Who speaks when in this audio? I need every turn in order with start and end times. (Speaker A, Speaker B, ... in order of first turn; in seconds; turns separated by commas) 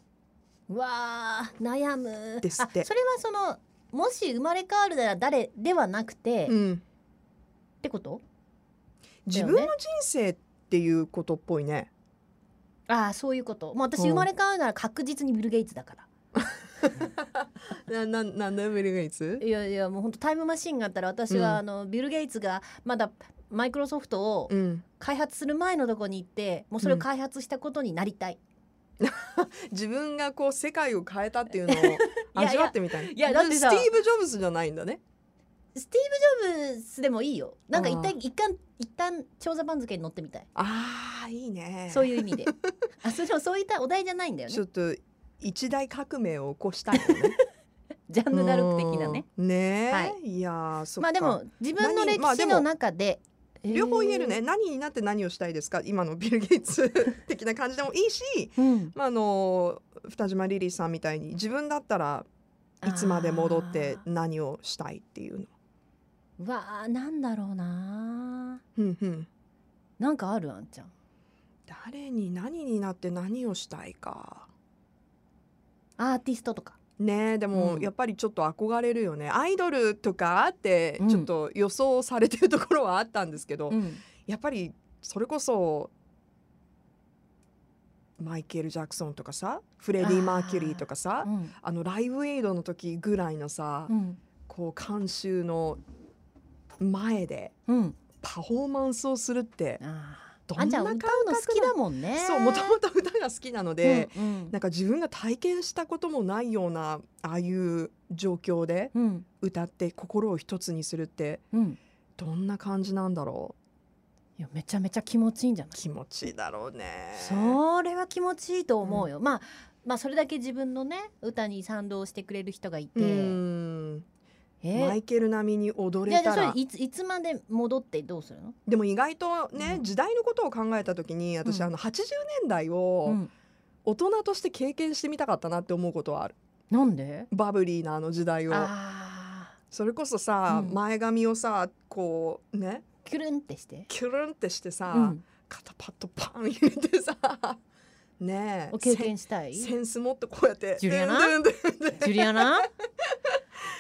Speaker A: 0.7-6.5, Speaker B: 2.4-2.9, Speaker B: 6.5-6.8, Speaker A: 7.8-8.2, Speaker B: 9.3-11.9, Speaker A: 9.3-9.7, Speaker A: 12.9-16.1, Speaker B: 14.0-14.3, Speaker B: 16.4-19.4, Speaker A: 19.4-28.4, Speaker B: 21.3-21.6, Speaker B: 24.5-24.8, Speaker B: 29.0-35.0, Speaker A: 31.7-33.9, Speaker A: 35.8-40.5, Speaker B: 37.7-38.1, Speaker B: 40.5-42.6, Speaker A: 41.9-44.6, Speaker B: 44.5-47.4, Speaker A: 47.0-47.3, Speaker A: 48.1-49.2, Speaker B: 48.3-52.7, Speaker A: 49.9-50.2, Speaker A: 51.0-54.4, Speaker B: 53.7-62.3, Speaker A: 58.6-58.9, Speaker B: 62.8-65.5, Speaker A: 62.8-64.0, Speaker A: 66.4-68.6, Speaker B: 68.8-69.3, Speaker A: 70.0-70.9, Speaker B: 71.7-74.5, Speaker A: 76.0-76.8, Speaker B: 77.0-85.9, Speaker A: 77.5-77.9, Speaker A: 81.0-81.3, Speaker A: 83.7-84.0, Speaker B: 88.2-93.9, Speaker A: 90.0-91.5, Speaker A: 93.9-94.2, Speaker B: 94.5-95.8, Speaker B: 96.8-97.5, Speaker A: 97.7-98.0, Speaker B: 98.2-99.8, Speaker A: 99.8-102.8, Speaker B: 100.5-111.4, Speaker A: 103.8-104.5, Speaker A: 108.9-109.3, Speaker A: 111.5-111.8, Speaker B: 112.2-113.6, Speaker A: 114.4-115.8, Speaker B: 115.8-117.6, Speaker A: 117.2-123.4, Speaker B: 123.0-124.0, Speaker A: 124.6-125.0, Speaker B: 124.7-126.6, Speaker A: 126.1-128.6, Speaker B: 128.7-133.2, Speaker A: 129.6-129.8, Speaker A: 131.4-131.7, Speaker B: 133.8-136.3, Speaker A: 136.7-137.3, Speaker B: 137.3-138.7, Speaker A: 138.5-139.6, Speaker B: 139.7-142.9, Speaker A: 140.5-140.8, Speaker A: 143.0-143.9, Speaker B: 143.9-147.6, Speaker A: 144.9-145.2, Speaker B: 148.2-152.7, Speaker A: 148.7-149.7, Speaker A: 150.8-151.4, Speaker A: 151.9-152.7